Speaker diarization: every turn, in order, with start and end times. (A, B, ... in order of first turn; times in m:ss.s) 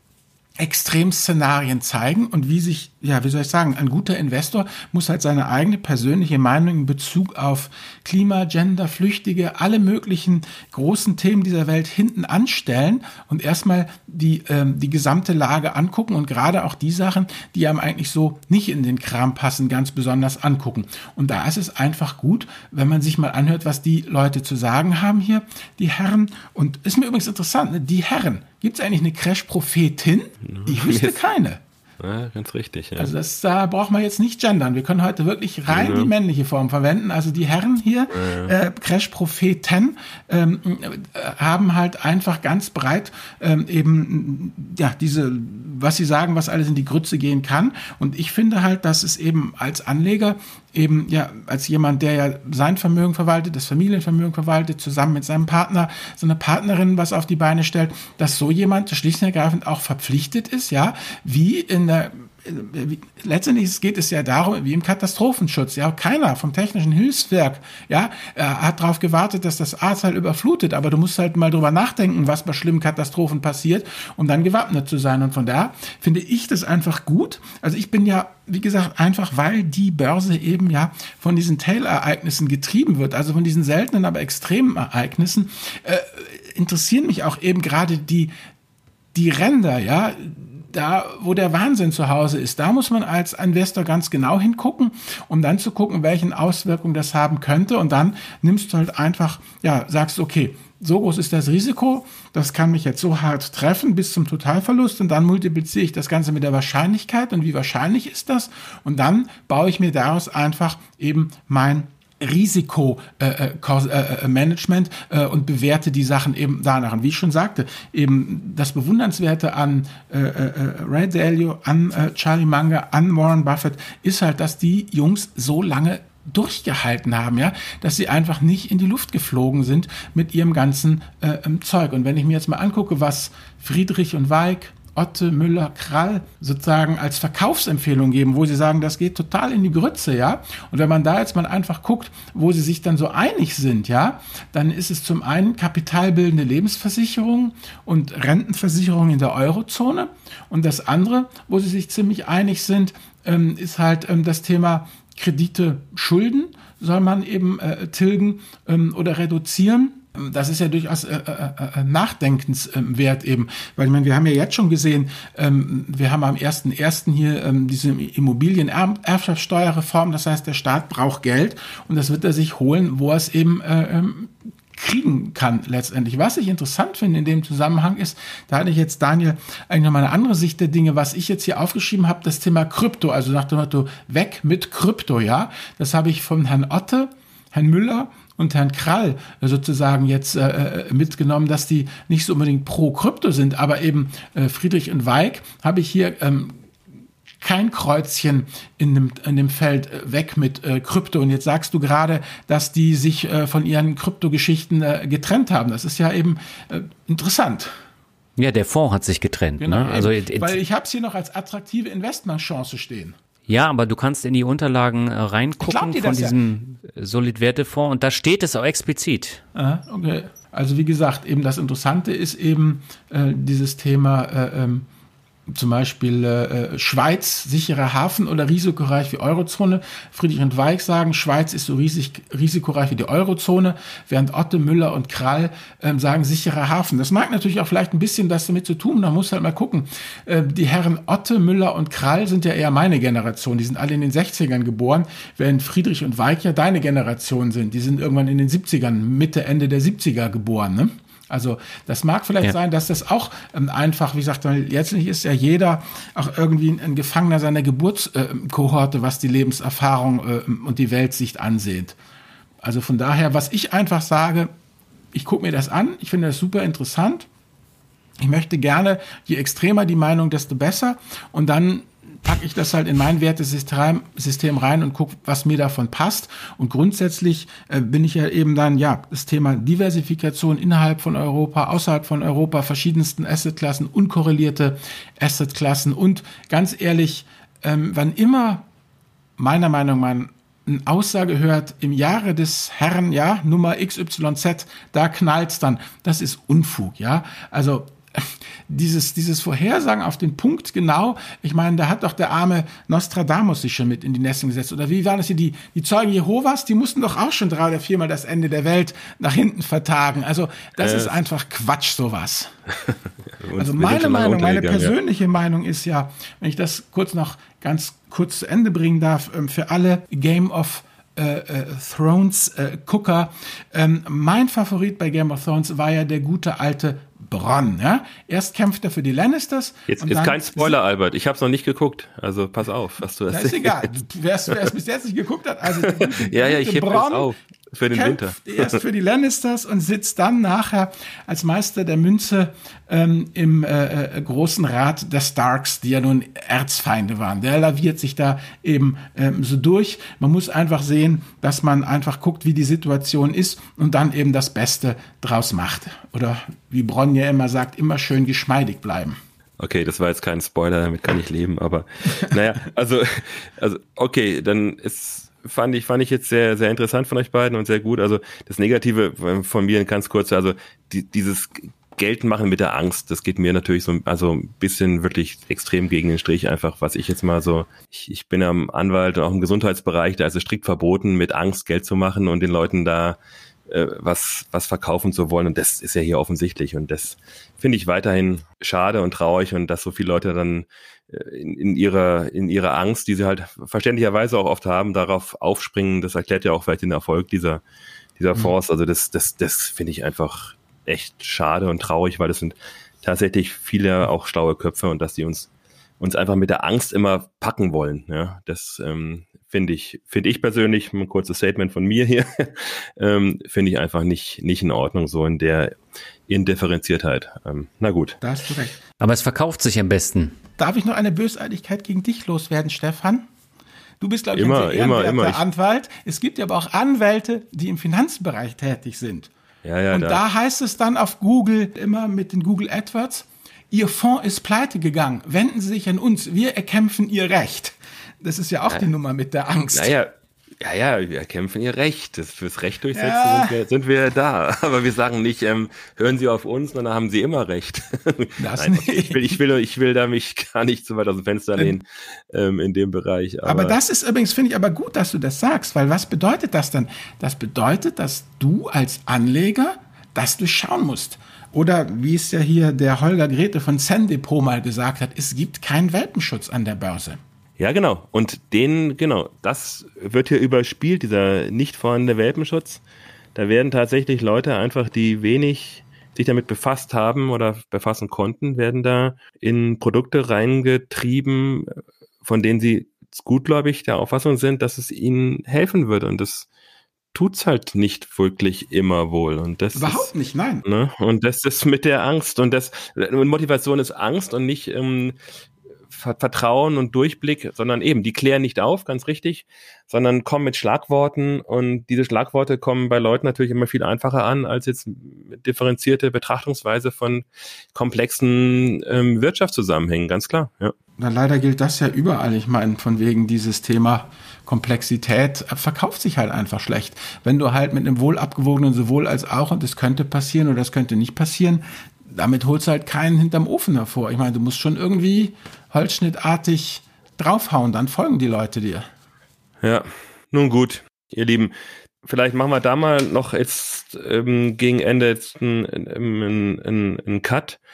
0:00.6-0:31.6 A
0:30.4-0:31.2 B
0:32.0-0:33.1 B
0:33.0-1:28.3 A
0:35.7-0:36.1 B
0:38.1-0:38.5 B
1:29.1-3:16.6 A
3:17.4-3:27.7 A
3:28.4-3:30.6 C
3:29.6-3:33.2 A
3:33.5-3:39.4 C
3:35.6-3:36.4 A
3:39.5-3:44.9 A
3:45.5-4:22.0 A
4:22.6-4:24.5 A
4:25.1-4:27.3 A
4:28.2-4:48.6 A
4:49.4-5:12.6 A
5:10.8-5:11.2 B
5:12.8-5:14.9 B
5:13.6-5:30.8 A
5:29.9-5:33.9 B
5:33.3-5:37.3 A
5:35.9-5:38.8 B
5:37.9-5:59.2 A
5:59.6-6:37.6 B
6:38.2-6:45.5 B
6:46.0-6:55.7 B
6:56.3-6:58.2 B
6:58.2-6:58.8 A
6:59.0-7:00.4 C
7:00.6-7:03.3 A
7:04.0-7:09.3 A
7:04.3-7:05.4 B
7:09.6-7:10.2 B
7:09.9-7:19.9 A
7:19.7-7:33.8 B
7:22.9-7:23.6 A
7:28.4-7:29.4 A
7:33.4-7:47.2 A
7:47.6-7:52.8 B
7:53.4-8:06.5 B
8:07.1-8:10.1 B
8:09.7-8:10.6 A
8:10.6-8:15.2 B
8:15.9-8:30.7 B
8:31.0-8:48.9 A
8:49.6-8:57.6 B